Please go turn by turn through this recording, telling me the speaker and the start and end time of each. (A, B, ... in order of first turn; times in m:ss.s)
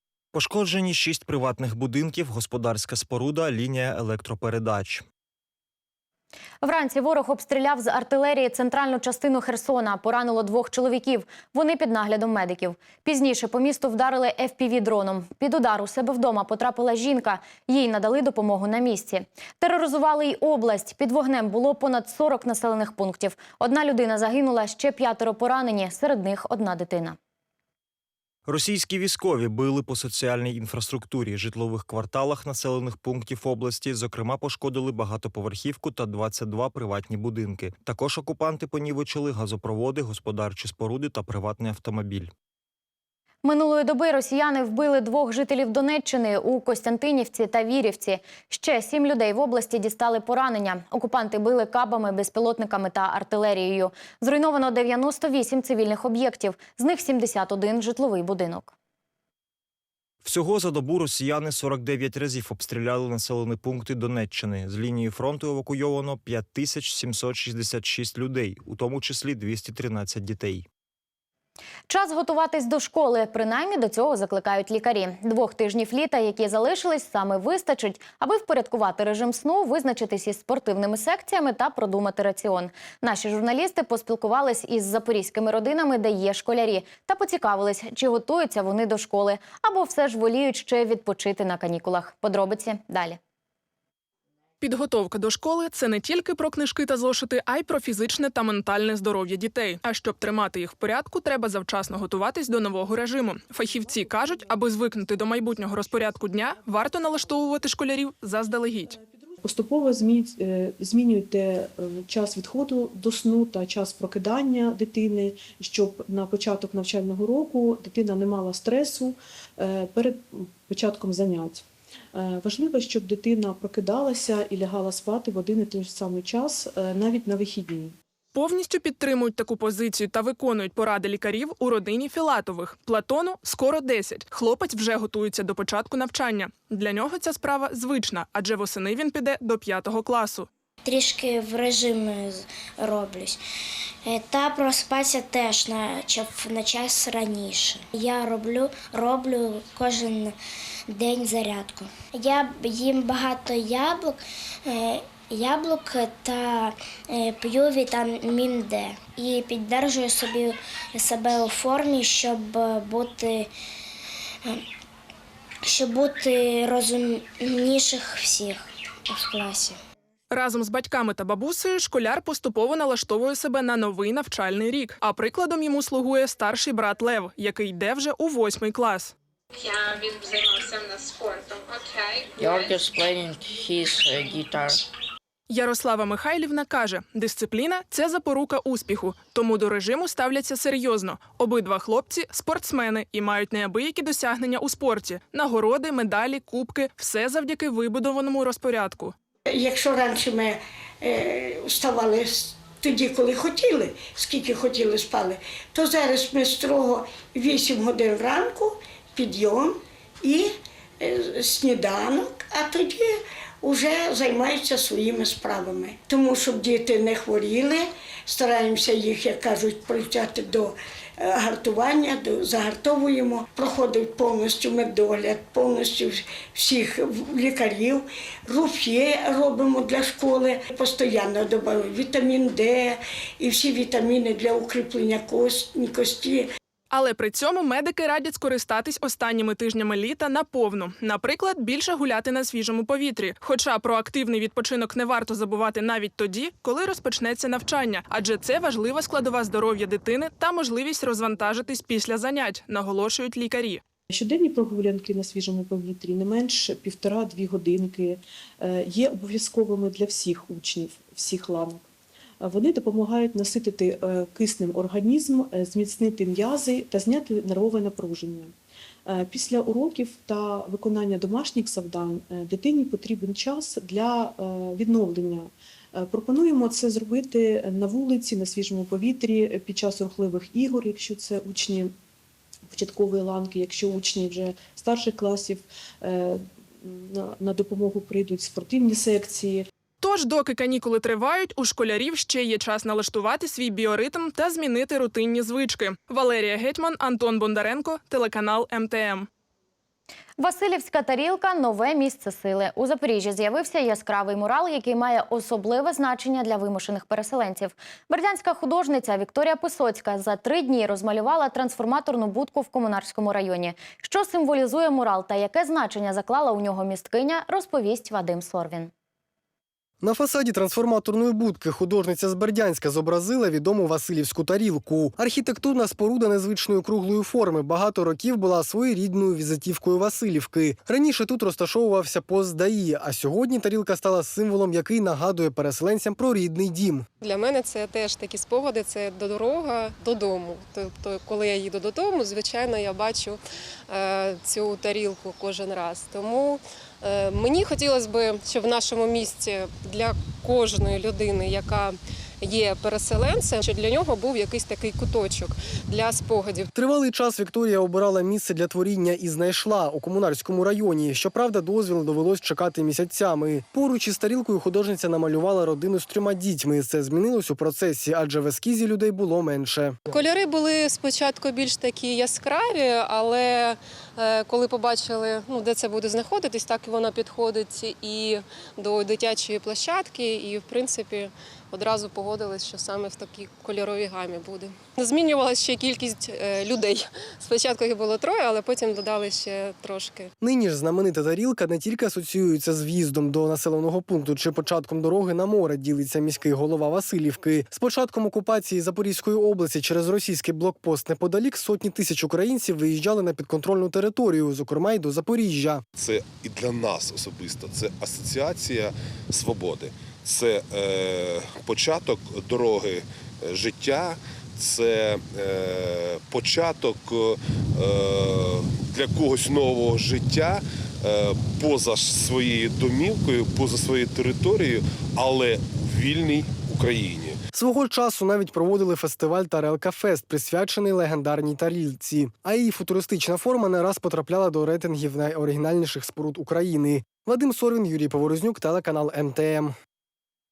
0:00.3-0:05.0 A
0:06.6-0:27.2 B
0:28.4-0:42.3 A
0:43.4-0:58.7 B
1:00.2-1:10.6 A
1:11.9-1:33.2 B
1:34.6-1:48.9 C
1:43.6-1:47.6 D
1:48.8-2:07.9 D
2:08.3-2:20.5 C
2:20.8-2:23.4 E
2:24.0-2:30.4 E
2:30.9-2:43.5 E
2:45.6-2:49.8 E
2:50.3-2:59.1 C
2:59.6-3:02.7 F
3:02.4-3:04.8 G
3:05.5-3:19.1 C
3:19.5-3:56.5 H
3:56.9-4:13.8 C
4:14.1-4:21.8 D
4:22.4-4:28.5 D
4:29.0-4:41.9 D
4:42.7-4:49.7 D
4:50.0-4:59.3 C
5:00.4-5:18.9 B
5:20.0-5:37.0 I
5:37.2-5:43.4 J
5:43.9-5:56.6 J
5:56.7-6:10.0 I
6:10.1-6:30.3 J
6:30.4-6:45.8 I
6:46.0-7:07.4 K
7:07.5-7:19.7 I